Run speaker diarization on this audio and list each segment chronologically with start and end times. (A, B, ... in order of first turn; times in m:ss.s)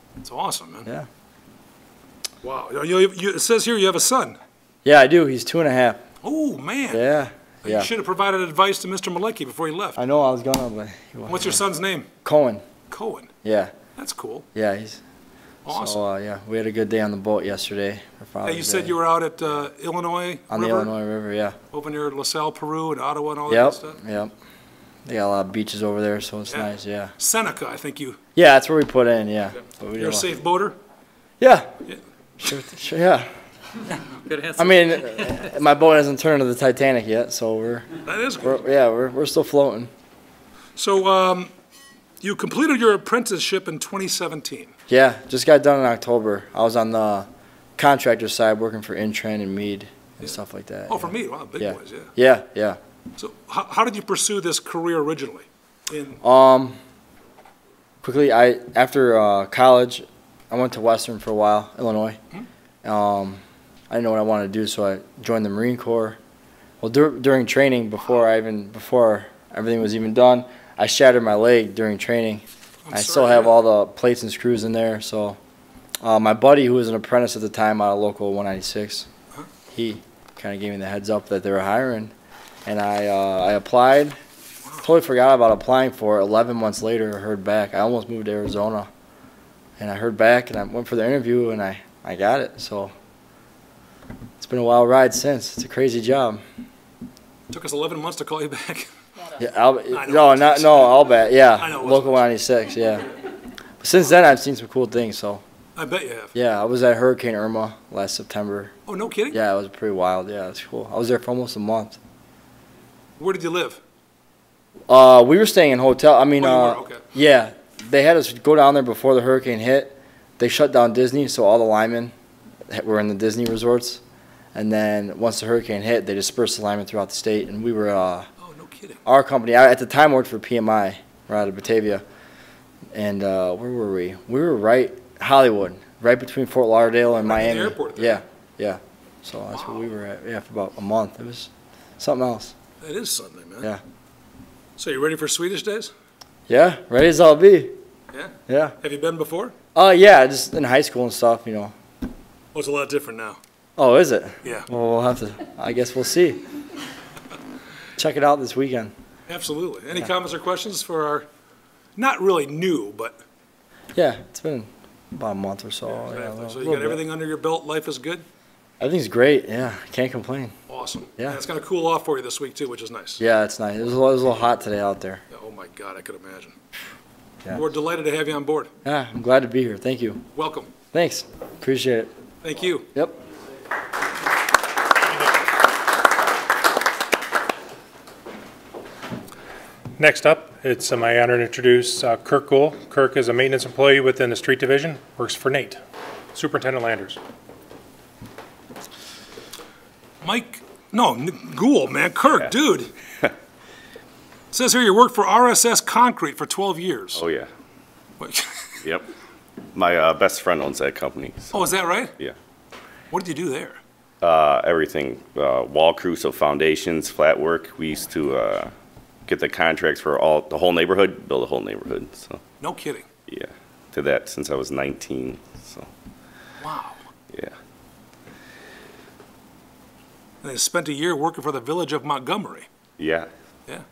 0:00.2-0:00.9 A
0:02.4-0:04.4 A
0:04.8-0:06.0 B
0:06.2-0:07.0 A
0:06.9-0:07.9 B
0:07.6-0:10.0 A
0:10.0-0:11.6 B
0:11.3-0:12.1 A
0:12.2-0:12.6 B
0:12.9-0:13.3 A
0:13.4-0:13.7 B
0:14.0-0:14.4 A
0:14.5-0:15.0 B
0:15.6-0:16.0 A
0:15.7-0:19.0 B
0:18.4-0:20.9 A
0:20.5-0:21.6 B
0:21.7-0:24.0 A
0:23.5-0:24.3 B
0:25.0-0:27.1 B
0:26.5-0:28.2 A
0:28.3-0:30.3 B
0:30.0-0:30.8 A
0:31.4-0:31.7 B
0:32.4-0:33.3 B
0:34.1-0:34.6 C
0:34.5-0:39.9 B
0:38.0-0:38.6 A
0:40.8-0:41.5 A
0:42.2-0:44.7 A
0:44.9-0:47.3 B
0:47.8-0:52.8 B
0:50.9-0:52.1 A
0:53.2-0:56.2 A
0:56.2-0:56.8 B
0:58.0-1:02.2 B
1:02.8-1:06.2 B
1:06.8-1:15.4 B
1:12.9-1:13.6 A
1:16.0-1:19.1 B
1:19.7-1:22.1 B
1:22.6-1:24.2 B
1:24.8-1:28.9 B
1:29.8-1:32.9 B
1:34.4-1:36.4 B
1:37.5-1:38.9 A
1:39.4-1:43.1 B
1:39.9-1:42.2 A
1:43.8-1:45.4 B
1:45.8-1:46.3 A
1:46.3-1:48.7 B
1:48.9-1:49.4 A
1:49.3-1:52.0 B
1:53.2-1:53.8 A
1:54.9-2:02.1 B
1:56.4-1:57.0 A
2:02.7-2:04.0 B
2:04.5-2:08.3 B
2:08.4-2:09.0 A
2:09.0-2:12.0 B
2:12.9-2:22.5 B
2:17.2-2:18.2 A
2:19.5-2:19.9 A
2:22.8-2:23.7 A
2:24.8-2:25.9 A
2:26.5-2:27.7 B
2:28.1-2:29.5 A
2:28.5-2:28.8 B
2:29.7-2:31.7 B
2:32.5-2:33.4 A
2:33.8-2:36.4 B
2:34.4-2:34.7 A
2:38.0-2:38.9 B
2:39.3-2:41.2 A
2:42.0-2:43.2 A
2:43.9-2:47.0 B
2:46.0-2:48.2 A
2:48.8-2:50.5 B
2:50.7-2:53.2 A
2:53.2-2:55.2 B
2:55.3-2:56.6 A
2:57.5-2:58.7 A
2:58.8-3:00.2 B
3:00.3-3:00.7 A
3:00.9-3:02.1 B
3:02.4-3:02.9 A
3:10.0-3:15.8 C
3:16.3-3:17.2 C
3:20.2-3:22.9 A
3:24.5-3:27.2 A
3:27.1-3:27.5 D
3:28.2-3:28.7 A
3:29.7-3:31.6 D
3:31.5-3:32.1 A
3:33.1-3:33.8 A
3:34.2-3:38.7 D
3:39.2-3:42.4 D
3:42.6-3:43.0 A
3:43.3-3:45.9 D
3:46.6-3:47.0 A
3:50.4-3:52.7 A
3:53.0-3:53.3 D